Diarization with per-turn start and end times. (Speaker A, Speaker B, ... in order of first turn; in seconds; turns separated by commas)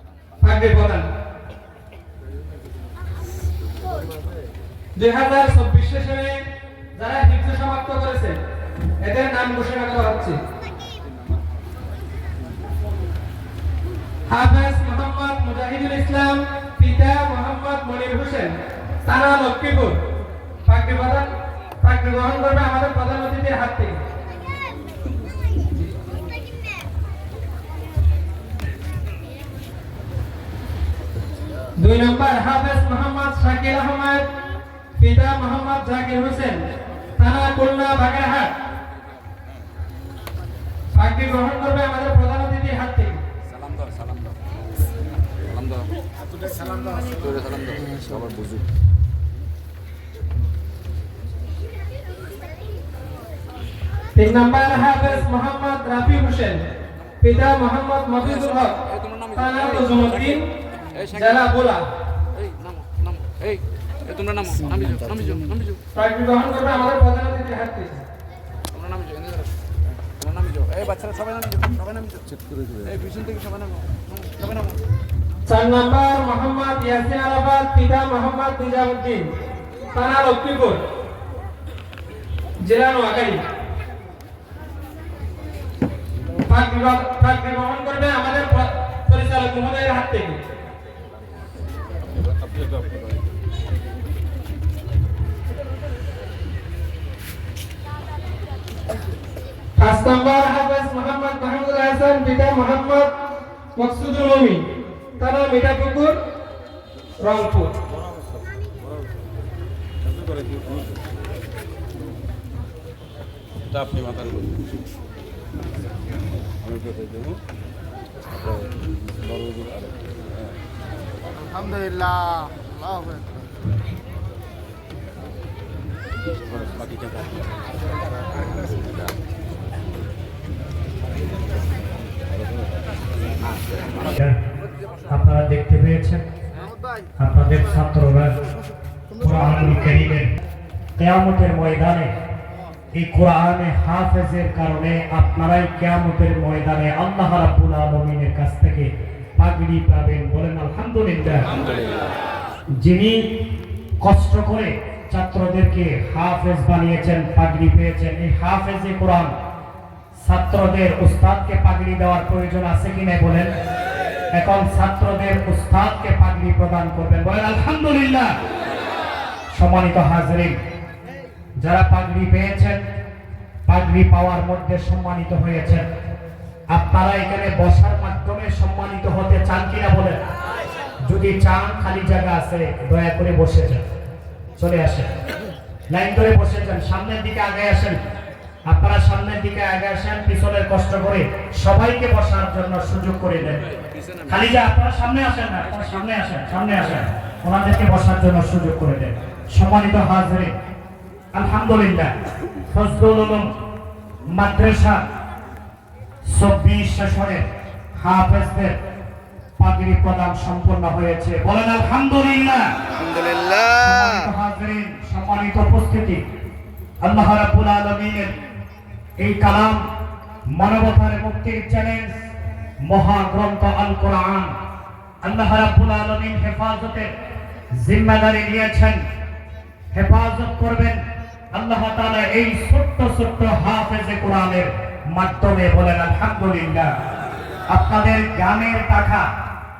Speaker A: 0.4-1.1, Speaker A: 5.0-6.4, Speaker A: 7.0-8.4, Speaker A: 9.0-10.4, Speaker A: 14.3-20.0, Speaker A: 20.6-21.3, Speaker A: 21.8-24.0, Speaker A: 31.8-34.2, Speaker A: 35.0-36.6, Speaker A: 37.1-38.5, Speaker A: 40.9-43.2, Speaker B: 47.1-48.5, Speaker A: 54.1-56.6, Speaker A: 57.2-60.5, Speaker A: 61.0-61.9, Speaker B: 62.5-63.5, Speaker B: 64.1-65.7, Speaker A: 65.9-68.0, Speaker B: 68.8-69.4, Speaker B: 70.3-73.6, Speaker A: 75.5-79.3, Speaker A: 79.9-80.8, Speaker A: 82.6-83.4, Speaker A: 86.4-90.4, Speaker A: 99.8-103.1, Speaker A: 103.7-104.6, Speaker A: 105.2-106.2, Speaker A: 107.2-107.7, Speaker B: 113.8-114.4, Speaker B: 117.0-117.3, Speaker C: 134.0-134.4, Speaker C: 135.1-136.2, Speaker C: 137.2-138.3, Speaker C: 139.2-140.3, Speaker C: 141.0-142.1, Speaker C: 142.9-151.5, Speaker C: 152.8-153.4, Speaker C: 154.0-159.3, Speaker C: 160.2-163.5, Speaker C: 164.3-168.3, Speaker C: 169.5-170.6, Speaker C: 171.6-172.8, Speaker C: 173.7-175.8, Speaker C: 176.7-180.2, Speaker C: 181.0-183.8, Speaker C: 184.6-185.1, Speaker C: 185.9-188.0, Speaker C: 188.7-193.6, Speaker C: 194.3-200.5, Speaker C: 201.3-202.1, Speaker C: 202.7-203.5, Speaker C: 204.3-205.0, Speaker C: 206.3-207.4, Speaker C: 208.0-208.8, Speaker C: 209.6-212.7, Speaker C: 213.7-216.2, Speaker C: 217.0-218.3, Speaker C: 219.2-219.8, Speaker C: 220.5-222.2, Speaker C: 222.8-224.5, Speaker C: 225.2-227.1, Speaker C: 227.8-229.0, Speaker C: 229.9-231.0, Speaker C: 231.5-236.9, Speaker C: 237.7-239.2